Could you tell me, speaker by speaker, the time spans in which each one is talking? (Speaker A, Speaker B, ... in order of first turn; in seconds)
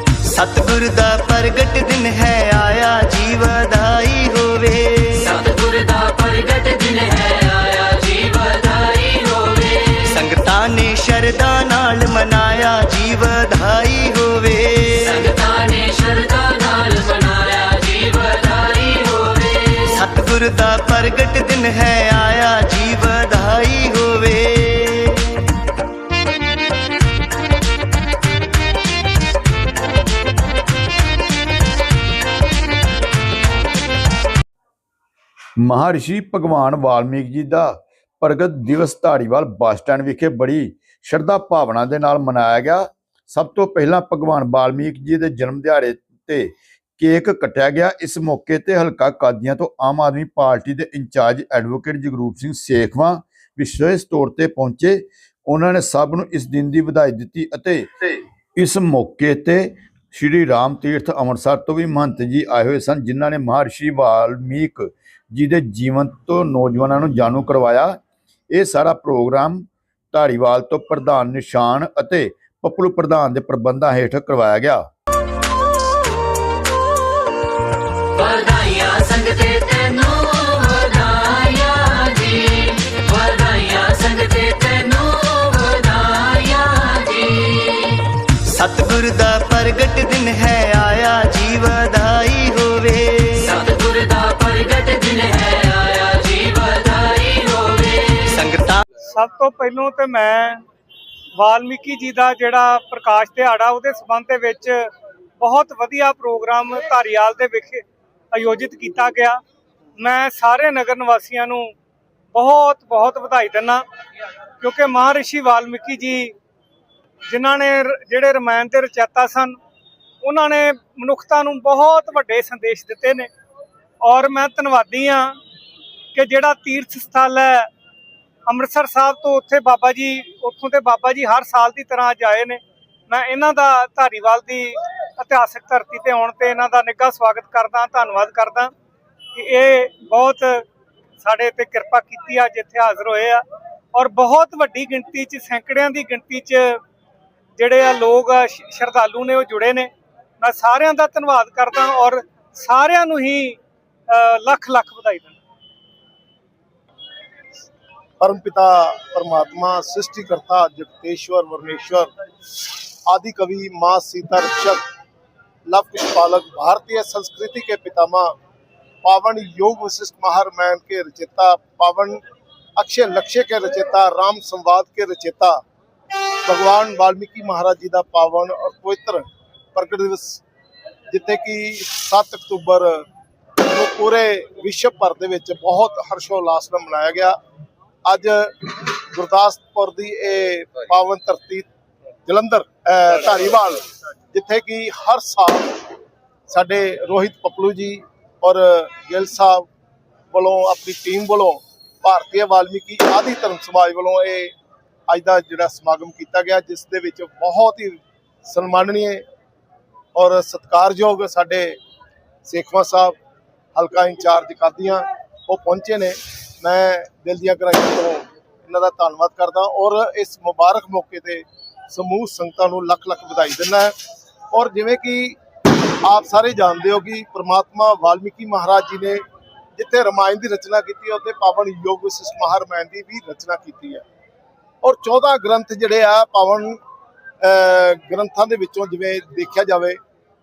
Speaker A: 0.2-5.3, 10.1-15.3, 19.9-25.4, 88.4-93.5, 98.3-98.8
Speaker B: 5.2-10.2, 15.0-19.9, 78.2-87.9, 93.4-98.3
Speaker C: 35.6-68.0, 68.5-74.8
Speaker D: 99.0-100.6, 101.3-104.9, 105.4-109.4, 110.0-111.7, 112.3-113.8, 114.6-116.3, 117.3-119.6, 120.2-123.3, 124.0-125.3, 126.1-127.7, 128.4-138.7, 139.3-140.6, 141.2-146.8, 147.6-153.6, 154.1-155.4
Speaker E: 158.2-162.1, 163.1-164.8, 165.7-168.3, 169.0-172.2, 172.8-175.6, 176.4-180.4, 181.1-183.1, 183.6-187.4, 188.0-191.7, 192.2-195.7, 196.5-199.7, 200.3-204.5, 205.1-209.2, 210.1-211.8, 212.4-213.1, 213.7-223.9, 224.5-225.4, 226.0-229.2, 229.8-234.0, 234.8-236.8, 237.4-240.0